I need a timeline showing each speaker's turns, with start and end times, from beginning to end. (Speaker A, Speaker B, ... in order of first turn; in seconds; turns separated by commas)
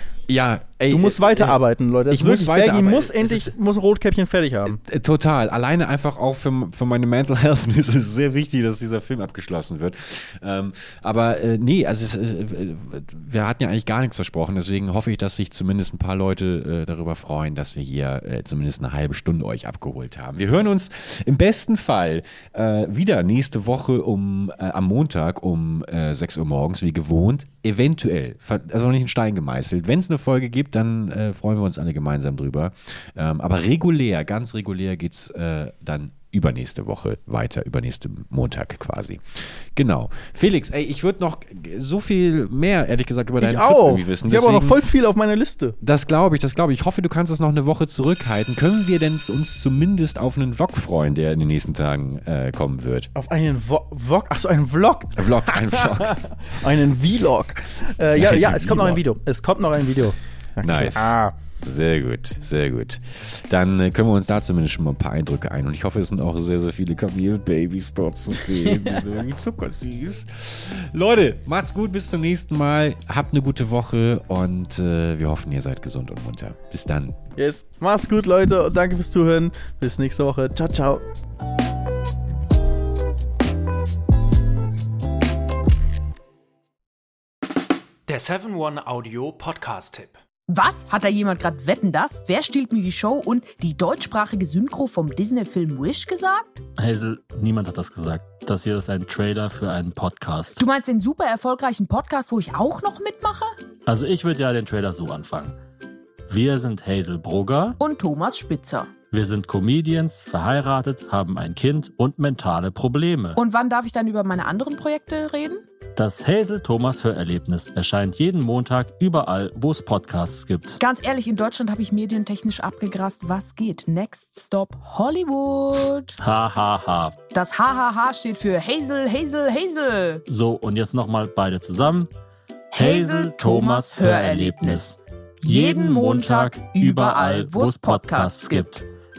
Speaker A: 0.3-1.6, Speaker B: 0.9-4.8, Speaker A: 2.1-3.5, Speaker A: 4.8-44.8, Speaker B: 43.4-45.7, Speaker A: 45.8-53.1, Speaker B: 53.1-61.3, Speaker A: 55.2-56.1, Speaker A: 58.1-59.0, Speaker A: 60.6-77.2, Speaker B: 77.4-81.0, Speaker C: 88.1-90.2, Speaker D: 90.5-96.6, Speaker E: 96.8-100.6, Speaker D: 100.6-103.5, Speaker E: 103.8-105.5, Speaker E: 106.3-107.8, Speaker D: 107.8-108.9, Speaker E: 109.1-113.4, Speaker D: 113.3-115.6, Speaker E: 116.0-120.8, Speaker D: 120.8-126.1, Speaker E: 126.2-127.2, Speaker D: 127.3-130.2, Speaker E: 130.3-132.1, Speaker D: 132.7-134.9, Speaker E: 132.7-138.8, Speaker D: 135.4-138.7